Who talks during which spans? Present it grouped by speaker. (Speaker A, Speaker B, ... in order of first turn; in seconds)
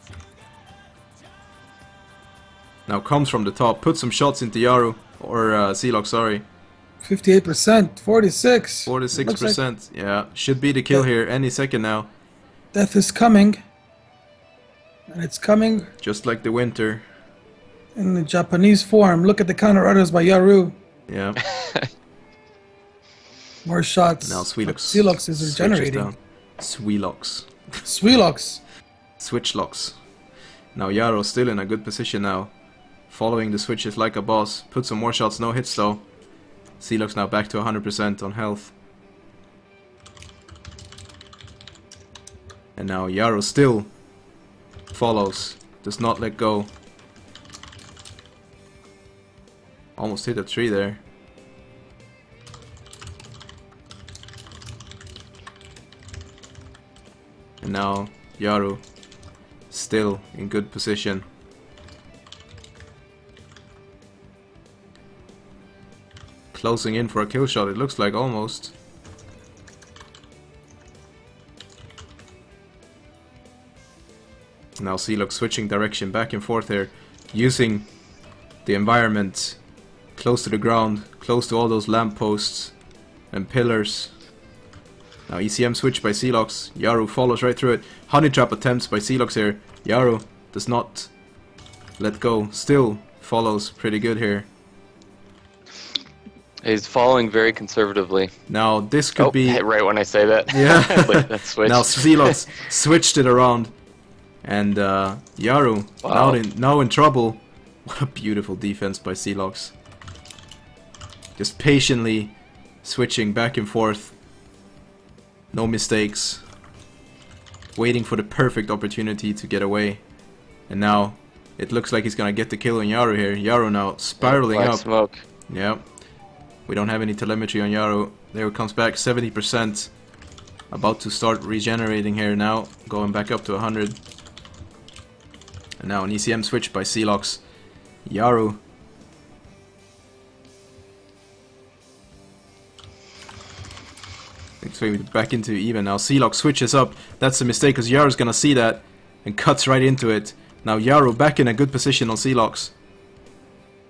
Speaker A: 2.9-6.5, 8.9-12.1, 16.0-17.1, 21.1-21.4, 24.2-27.5, 29.2-30.0, 30.8-32.5, 33.1-36.1, 36.8-38.8, 42.8-43.9, 44.9-46.7, 50.0-51.0, 57.6-58.8, 59.7-61.2, 66.5-68.8, 74.8-77.9, 78.7-79.6, 80.2-82.8, 83.3-84.1, 85.3-91.1, 92.0-94.5, 98.5-99.6, 100.5-103.7, 104.4-109.7, 111.4-114.2, 115.5-116.5, 117.8-120.0, 120.7-124.9, 125.5-125.9, 126.7-129.9, 130.7-134.0, 135.8-137.4, 138.1-138.6, 144.6-152.7
Speaker B: 7.0-9.6, 12.7-13.6, 15.1-15.9, 17.9-20.8, 23.6-26.1, 27.8-28.6
Speaker C: 21.5-21.9, 96.6-98.3, 99.2-102.5, 106.0-106.4, 124.2-125.2